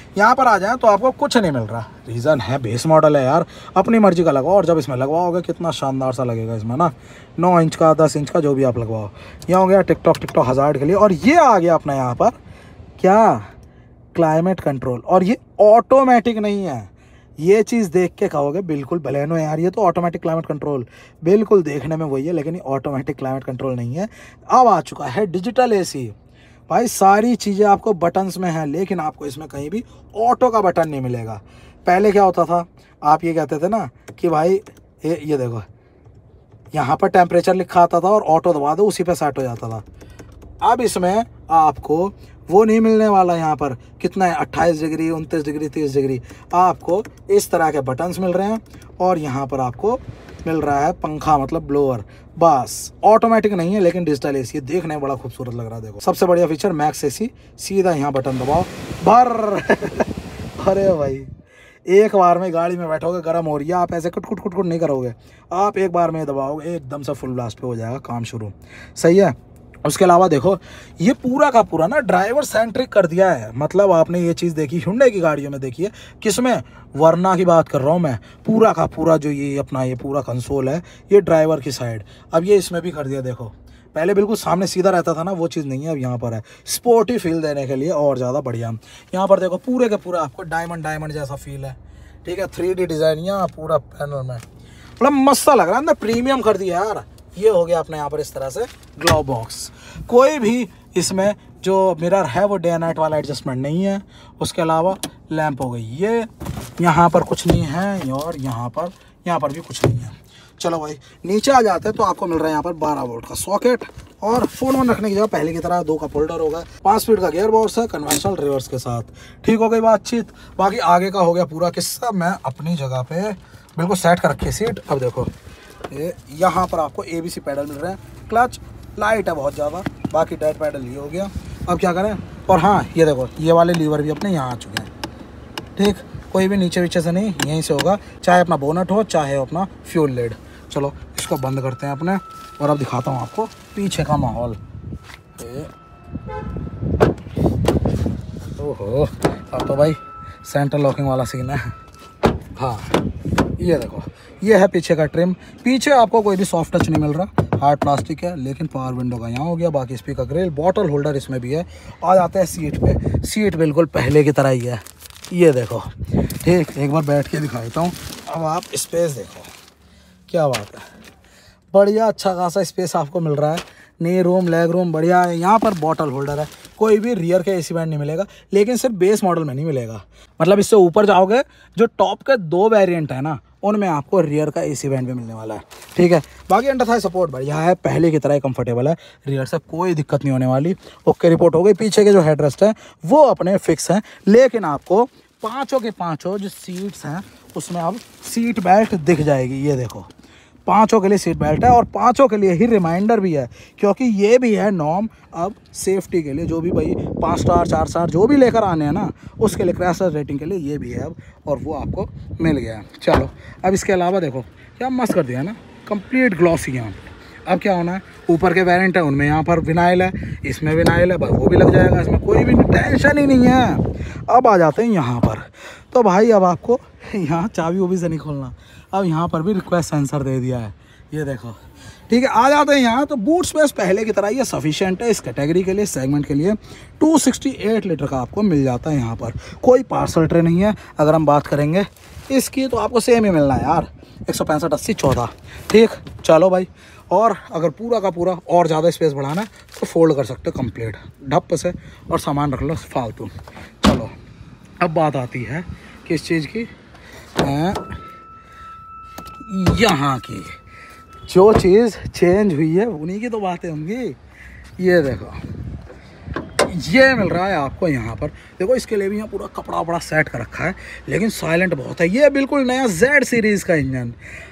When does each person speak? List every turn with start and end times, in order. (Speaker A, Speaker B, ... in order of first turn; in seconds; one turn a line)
Speaker A: 0.1-12.4
Speaker A: 13.0-13.5
Speaker A: 14.1-26.1
Speaker A: 26.7-35.6
Speaker A: 36.7-39.8
Speaker A: 40.6-61.3
Speaker A: 61.9-94.4
Speaker A: 95.0-106.3
Speaker A: 106.8-125.3
Speaker A: 125.9-134.9
Speaker A: 135.8-144.6
Speaker A: 145.4-145.7
Speaker A: 148.6-151.7
Speaker A: 152.6-152.9
Speaker A: 153.6-169.5
Speaker A: 170.3-170.8
Speaker A: 171.7-200.1
Speaker A: 200.7-254.1
Speaker A: 254.8-256.7
Speaker A: 257.4-258.0
Speaker A: 259.4-260.6
Speaker A: 261.2-264.2
Speaker A: 264.8-265.4
Speaker A: 266.6-274.2